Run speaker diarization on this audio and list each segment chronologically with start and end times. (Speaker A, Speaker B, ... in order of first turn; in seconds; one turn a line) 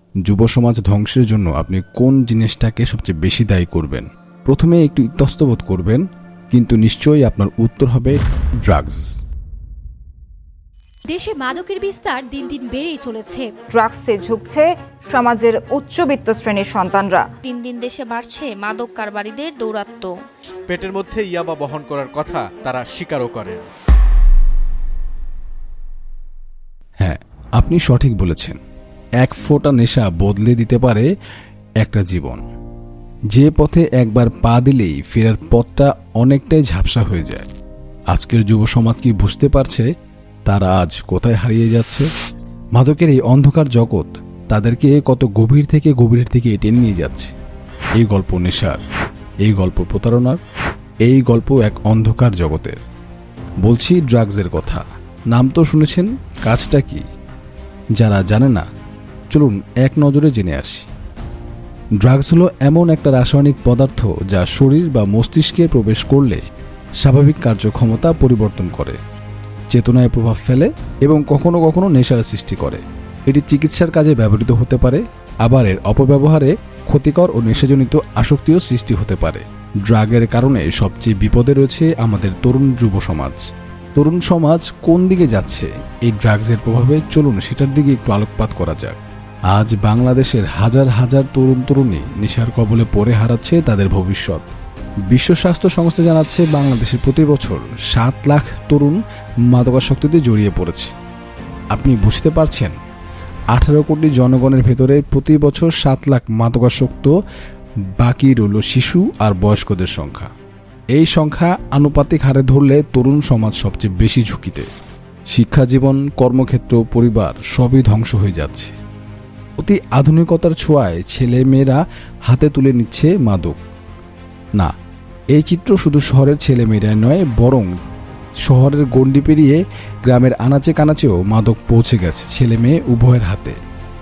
Speaker A: 0.2-9.1
Speaker B: 11.1-13.5
Speaker C: 13.7-17.2
Speaker D: 17.4-20.1
Speaker E: 20.7-23.7
Speaker A: 27.0-28.6
Speaker A: 29.2-31.1
Speaker A: 31.8-32.4
Speaker A: 33.3-37.5
Speaker A: 38.1-39.9
Speaker A: 40.5-42.1
Speaker A: 42.7-47.3
Speaker A: 48.0-48.8
Speaker A: 49.4-50.4
Speaker A: 51.0-52.8
Speaker A: 53.6-57.0
Speaker A: 58.0-58.6
Speaker A: 59.3-60.9
Speaker A: 62.0-66.4
Speaker A: 67.0-69.0
Speaker A: 69.7-83.4
Speaker A: 84.0-94.4
Speaker A: 95.1-100.9
Speaker A: 101.7-102.8
Speaker A: 103.5-107.1
Speaker A: 108.0-110.3
Speaker A: 110.9-114.7
Speaker A: 115.3-118.8
Speaker A: 119.6-123.6
Speaker A: 125.3-127.7
Speaker A: 128.4-133.6